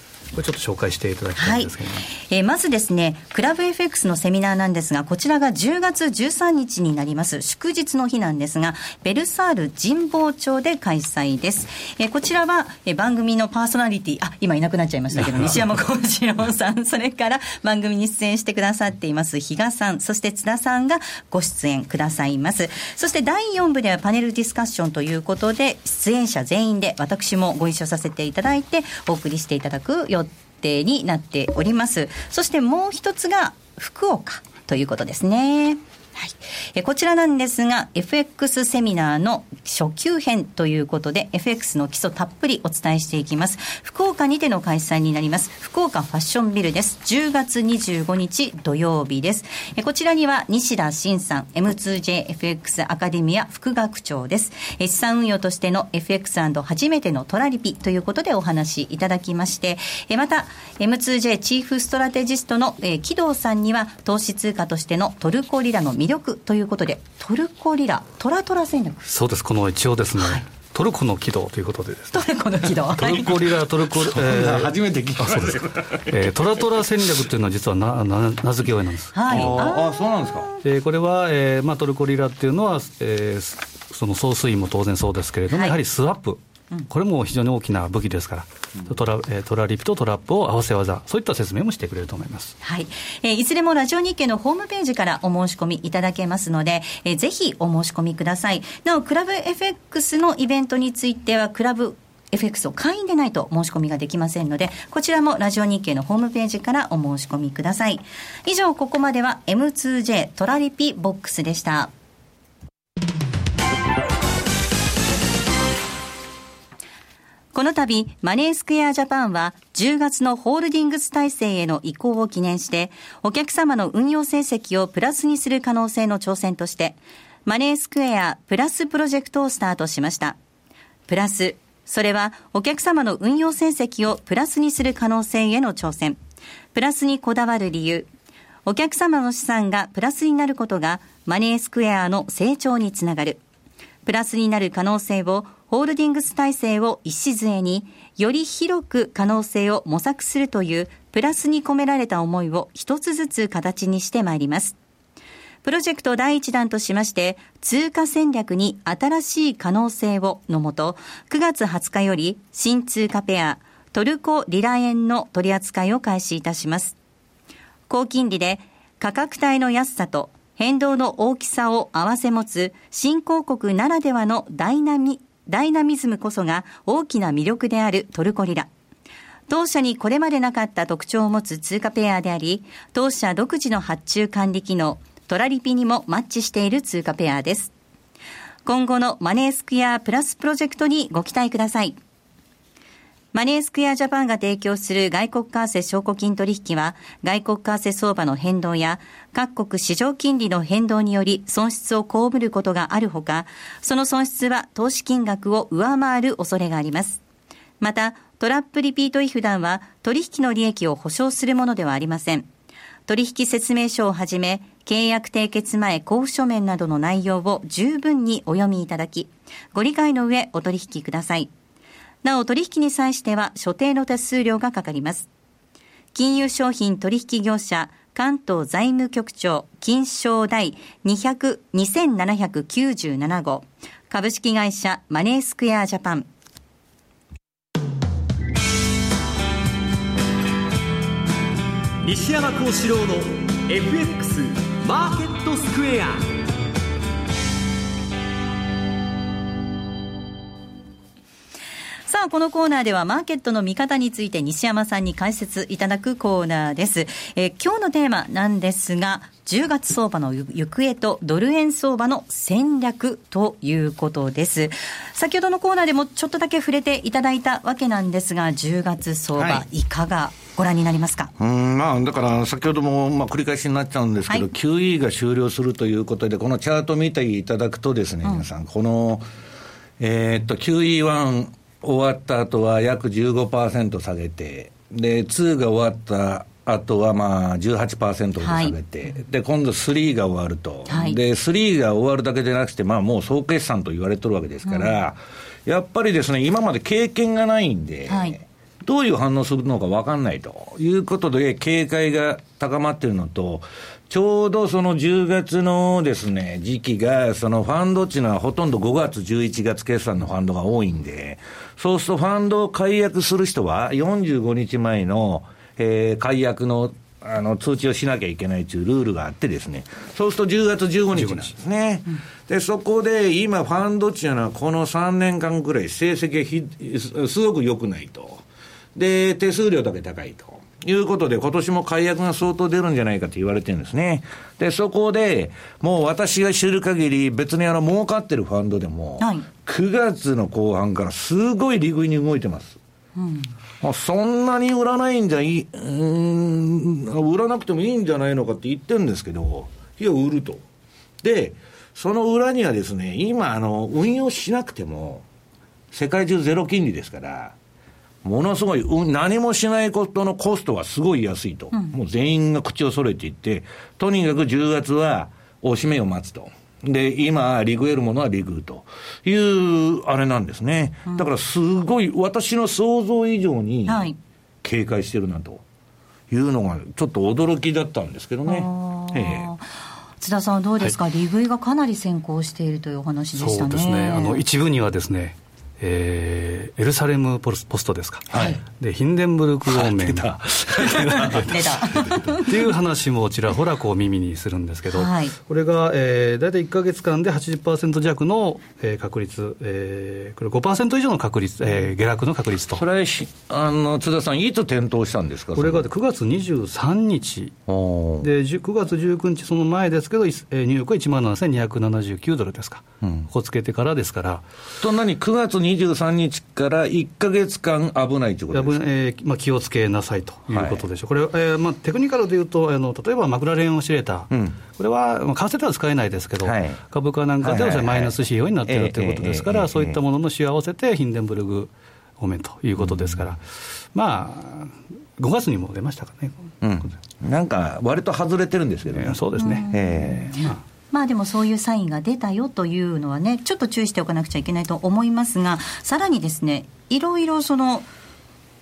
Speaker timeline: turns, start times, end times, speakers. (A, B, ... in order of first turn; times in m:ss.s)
0:00.3-0:02.1 A
0:01.4-1:09.1 B
0:15.2-0:15.6 A
1:09.1-1:12.3 A
1:10.2-1:10.4 B
1:12.1-1:13.4 B
1:12.9-1:19.5 A
1:13.9-1:16.8 C
1:19.1-1:20.2 B
1:19.3-1:20.5 C
1:20.6-1:32.6 A
1:25.5-1:25.8 B
1:32.6-1:51.9 B
1:57.5-2:10.4 B
2:11.1-2:16.2 B
2:16.7-2:18.1 B
2:18.7-2:23.4 B
2:24.1-2:34.8 B
2:35.6-2:47.0 B
2:47.9-2:58.7 B
2:59.5-3:07.7 B
3:08.7-3:12.0 B
3:13.3-3:27.2 B
3:27.8-3:32.5 B
3:33.1-3:41.5 B
3:42.2-3:45.3 B
3:46.1-3:56.3 B
4:02.0-4:06.3 D
4:12.1-4:31.3 B
4:29.4-4:29.6 C
4:31.4-4:39.3 C
4:40.0-5:28.4 C
4:48.4-4:48.7 B
4:50.9-4:51.2 B
4:54.7-4:54.9 B
4:58.1-4:58.4 B
5:21.2-5:21.5 A
5:29.0-5:42.8 C
5:39.2-5:39.5 B
5:43.2-5:43.5 B
5:43.8-5:50.6 C
5:51.2-5:55.2 C
5:55.9-5:57.6 C
5:58.2-6:14.1 C
6:13.9-6:14.2 B
6:14.6-6:15.6 C
6:16.3-6:19.5 C
6:18.5-6:19.7 B
6:20.2-6:24.4 B
6:23.4-6:31.5 A
6:28.3-6:28.6 C
6:29.7-6:31.8 C
6:31.5-6:32.6 B
6:32.4-6:42.8 A
6:34.9-6:35.4 B
6:42.8-6:45.9 C
6:45.6-6:47.6 A
6:47.7-6:48.3 C
6:48.2-6:54.4 A
6:53.0-6:53.3 C
6:54.8-6:58.8 C
6:58.5-7:16.9 A
7:00.5-7:00.9 C
7:04.3-7:04.6 C
7:06.4-7:06.8 C
7:07.4-7:10.0 C
7:12.8-7:13.3 C
7:16.6-7:20.4 C
7:18.9-7:19.7 A
7:19.4-7:27.9 B
7:20.3-7:20.6 A